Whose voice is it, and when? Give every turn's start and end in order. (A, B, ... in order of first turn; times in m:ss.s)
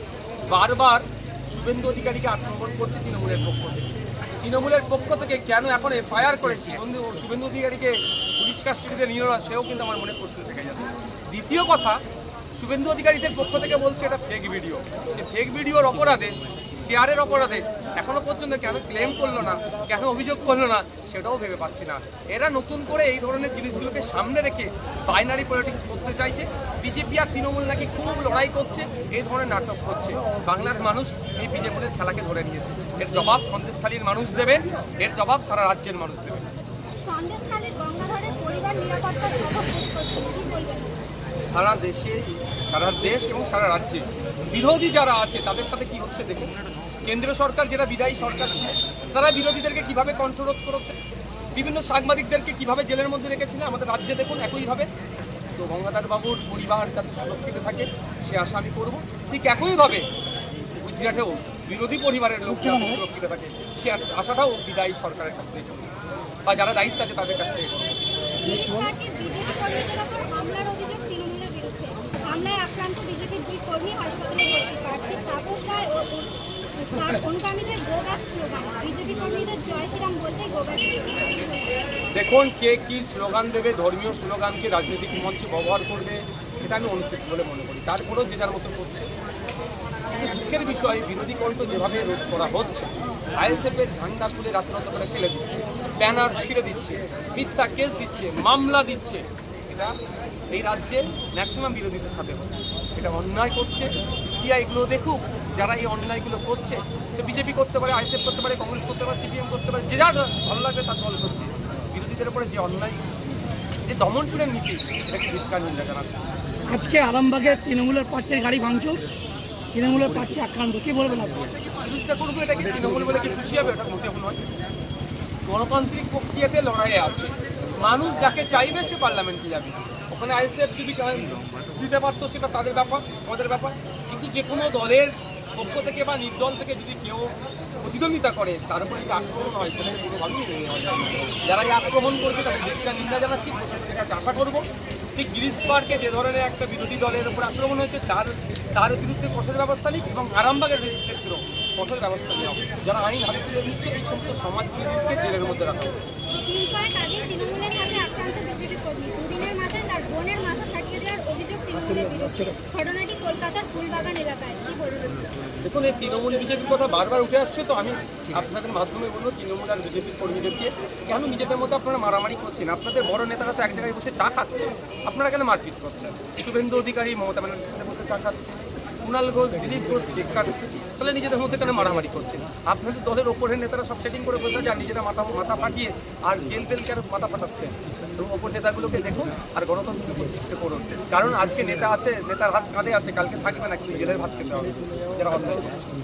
0:00.5-0:03.9 A
0:04.4-0:12.0 A
0:12.6-0:36.5 A
0:37.0-0:41.0 B
0:41.5-0:46.5 A
0:47.0-0:51.0 A
0:51.5-0:54.9 A
0:55.6-1:00.0 A
1:00.8-1:05.9 A
1:02.6-1:03.0 C
1:06.4-1:07.9 A
1:08.4-1:21.8 B
1:08.4-1:08.9 C
1:22.1-1:29.1 A
1:30.2-1:39.9 A
1:40.5-1:53.0 A
1:53.8-1:56.2 A
1:56.6-1:59.0 C
1:59.7-2:01.5 C
2:01.6-2:04.4 A
2:05.4-2:24.6 A
2:25.2-2:35.9 A
2:36.4-2:45.2 B
2:41.8-2:42.5 C
2:45.6-3:15.8 A